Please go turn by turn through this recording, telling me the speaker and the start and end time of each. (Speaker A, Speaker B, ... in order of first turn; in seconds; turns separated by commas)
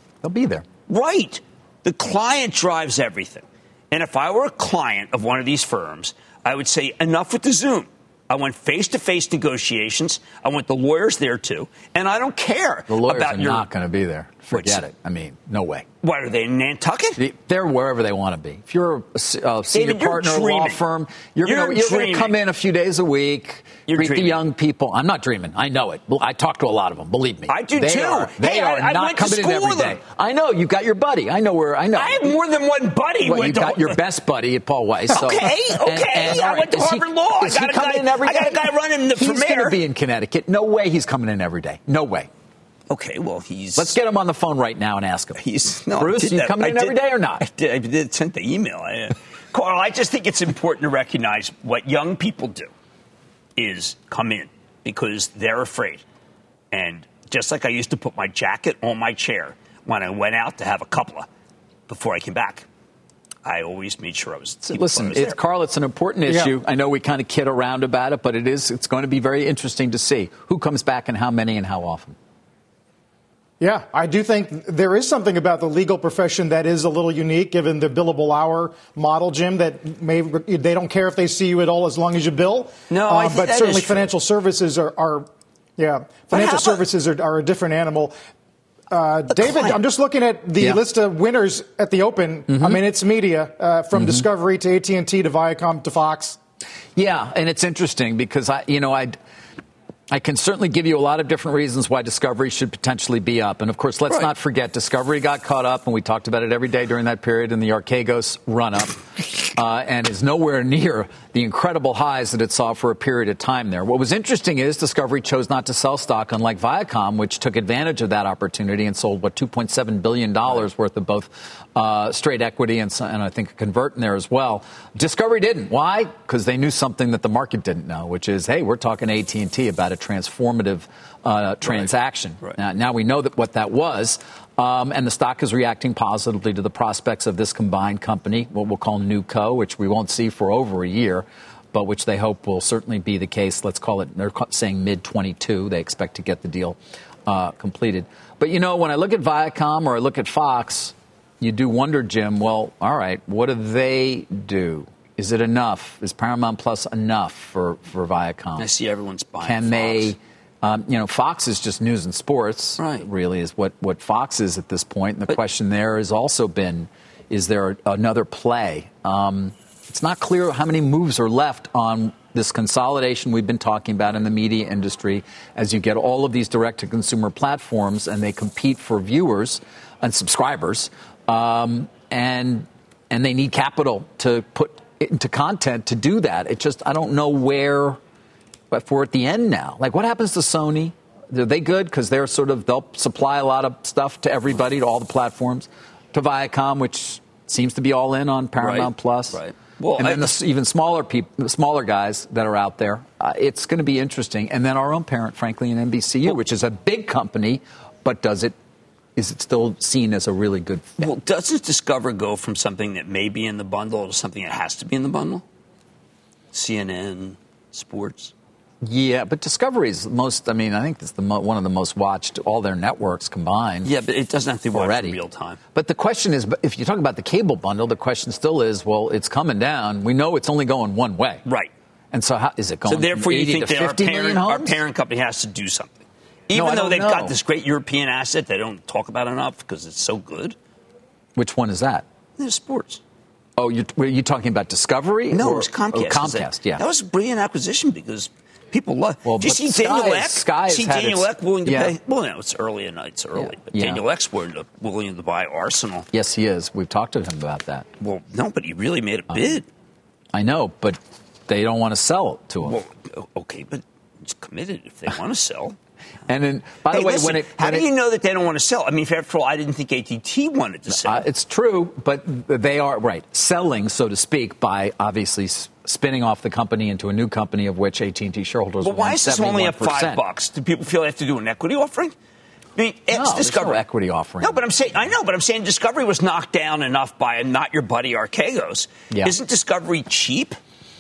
Speaker A: 0.2-0.7, Speaker B: 0.9-13.7, Speaker A: 12.9-15.9, Speaker B: 14.5-14.8, Speaker B: 16.0-17.2, Speaker A: 17.2-32.3, Speaker B: 19.7-20.8, Speaker B: 21.4-22.3, Speaker B: 23.9-24.4, Speaker B: 27.5-30.0, Speaker B: 31.9-34.0, Speaker A: 33.2-42.3, Speaker B: 35.1-39.8, Speaker B: 42.9-44.0, Speaker A: 43.8-45.4, Speaker B: 45.4-52.7, Speaker A: 45.9-47.5, Speaker B: 53.6-56.0, Speaker B: 56.7-61.3, Speaker B: 61.9-62.7, Speaker B: 63.5-65.4, Speaker A: 64.7-72.2, Speaker C: 66.3-66.5, Speaker C: 73.6-88.2, Speaker B: 82.9-84.1, Speaker B: 86.3-86.8, Speaker C: 88.9-96.4, Speaker B: 89.3-89.8, Speaker A: 92.5-92.8, Speaker A: 93.9-94.3, Speaker A: 97.0-99.2, Speaker A: 100.1-158.7, Speaker B: 131.6-131.9, Speaker B: 158.6-160.2, Speaker A: 159.4-188.0, Speaker B: 162.8-163.1, Speaker A: 188.7-199.4, Speaker B: 198.6-200.4, Speaker A: 200.0-208.6, Speaker A: 209.2-211.1, Speaker B: 211.0-215.4, Speaker B: 216.5-218.3, Speaker A: 218.8-223.9, Speaker B: 223.8-225.6, Speaker A: 224.7-225.2, Speaker A: 225.8-231.4, Speaker B: 231.5-231.7, Speaker A: 232.1-234.8, Speaker B: 232.9-240.6, Speaker A: 236.5-237.3, Speaker A: 241.4-242.1, Speaker B: 242.4-243.0, Speaker A: 243.6-246.8, Speaker B: 245.3-256.1, Speaker A: 249.2-252.0, Speaker A: 253.4-254.0, Speaker A: 256.1-257.9, Speaker B: 258.0-259.7, Speaker A: 259.3-259.6, Speaker A: 260.3-262.8, Speaker B: 262.6-265.8, Speaker A: 266.3-267.9, Speaker B: 266.9-271.2, Speaker A: 270.9-280.2, Speaker B: 278.8-282.2, Speaker B: 282.8-283.8, Speaker A: 283.1-284.6, Speaker B: 284.4-290.6